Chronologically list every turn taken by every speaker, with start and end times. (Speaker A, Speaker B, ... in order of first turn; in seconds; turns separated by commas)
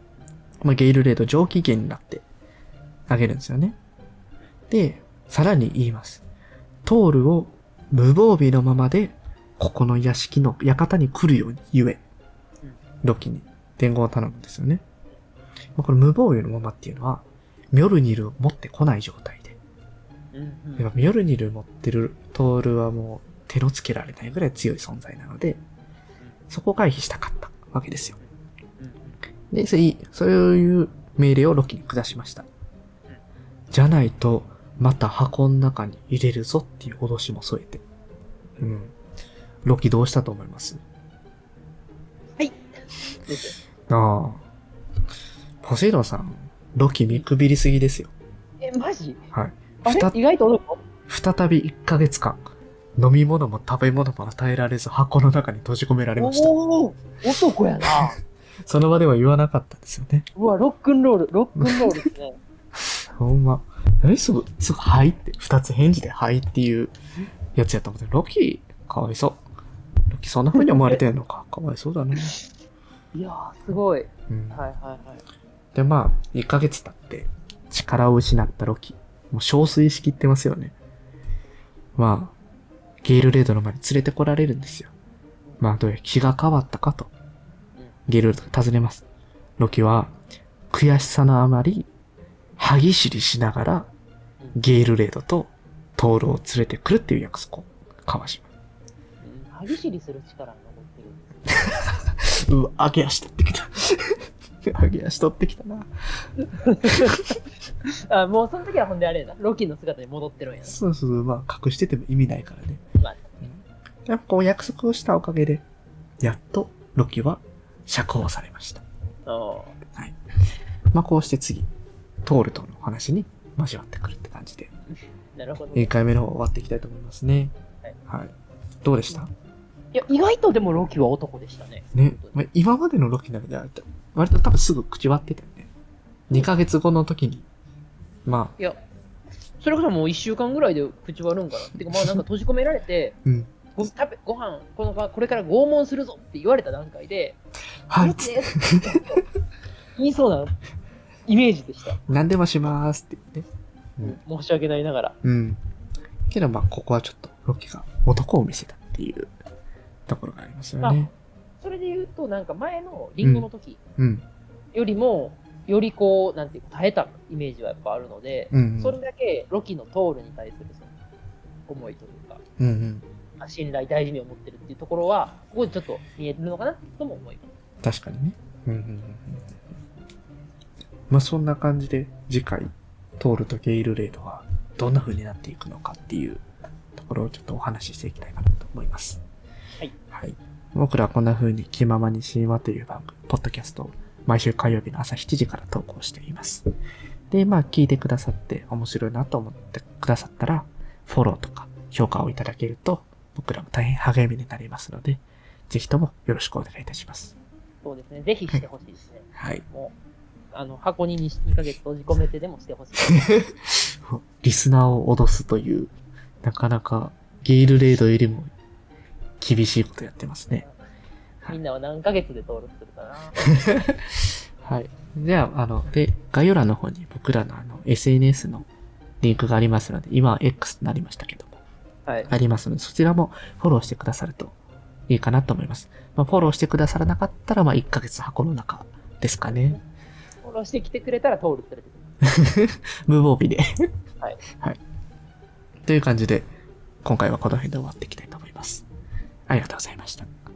Speaker A: 0.6-2.2, Speaker A: 3.1-3.8, Speaker A: 4.7-6.2, Speaker A: 6.8-12.0, Speaker A: 13.0-14.8, Speaker A: 15.8-19.6, Speaker B: 20.3-20.9, Speaker A: 20.8-25.6, Speaker A: 26.5-28.2, Speaker B: 28.8-29.2, Speaker A: 29.5-32.5, Speaker A: 33.7-37.8, Speaker A: 38.6-38.9, Speaker A: 39.6-40.8, Speaker B: 43.2-43.6, Speaker A: 43.9-44.4, Speaker A: 45.6-48.1, Speaker B: 48.6-49.2, Speaker A: 49.3-50.1, Speaker B: 49.9-50.8, Speaker A: 51.1-52.4, Speaker A: 53.0-56.5, Speaker B: 56.2-58.2, Speaker A: 57.8-60.3, Speaker B: 60.3-62.4, Speaker A: 61.6-61.9, Speaker A: 63.1-66.9, Speaker A: 67.5-69.4, Speaker A: 70.1-72.3, Speaker B: 70.5-71.0, Speaker B: 72.2-72.4, Speaker B: 73.1-75.2, Speaker A: 74.3-74.6, Speaker A: 75.7-80.8, Speaker A: 82.0-82.3, Speaker A: 83.0-84.9, Speaker A: 85.6-87.1, Speaker A: 88.1-89.0, Speaker A: 89.6-90.1, Speaker A: 90.7-91.9, Speaker A: 92.6-93.9, Speaker A: 94.5-98.5, Speaker B: 99.2-101.7, Speaker A: 101.6-105.9, Speaker B: 106.4-110.7, Speaker A: 106.8-107.1, Speaker A: 110.6-112.8, Speaker B: 113.0-113.4, Speaker A: 114.1-115.6, Speaker A: 116.2-118.8, Speaker B: 119.2-119.8, Speaker A: 120.9-121.7, Speaker A: 122.2-124.7, Speaker B: 125.3-125.9, Speaker A: 125.7-127.5, Speaker A: 128.1-128.3, Speaker A: 128.8-129.3, Speaker B: 129.9-132.4, Speaker A: 131.9-135.7, Speaker A: 136.3-137.5, Speaker A: 138.2-138.5, Speaker B: 139.6-143.2, Speaker A: 141.8-142.2, Speaker A: 143.2-143.9, Speaker B: 143.8-147.4, Speaker A: 147.9-149.2, Speaker B: 148.0-149.2, Speaker B: 149.9-150.6, Speaker B: 151.3-152.0, Speaker A: 152.1-153.5, Speaker B: 154.0-155.2, Speaker A: 155.2-155.6, Speaker A: 156.3-159.3, Speaker A: 160.1-161.1, Speaker B: 161.6-163.8, Speaker A: 163.2-163.5, Speaker A: 164.0-164.2, Speaker B: 164.7-170.9, Speaker A: 168.5-169.0, Speaker B: 171.7-172.4, Speaker A: 172.6-173.0, Speaker B: 173.4-177.5, Speaker A: 177.8-179.6, Speaker A: 181.1-186.4, Speaker A: 186.9-189.2, Speaker A: 190.1-196.6, Speaker A: 197.3-207.3, Speaker B: 207.8-209.9, Speaker A: 209.3-209.6, Speaker B: 210.5-213.5, Speaker A: 213.5-215.9, Speaker A: 216.4-218.5, Speaker A: 219.4-220.7, Speaker B: 221.4-223.4, Speaker A: 223.5-228.7, Speaker A: 229.2-231.6, Speaker B: 232.1-232.3, Speaker A: 232.3-234.5, Speaker A: 235.1-239.8, Speaker B: 239.5-239.8, Speaker B: 240.4-242.1, Speaker A: 242.2-243.6, Speaker A: 245.8-246.5, Speaker A: 247.0-248.8, Speaker A: 249.5-250.3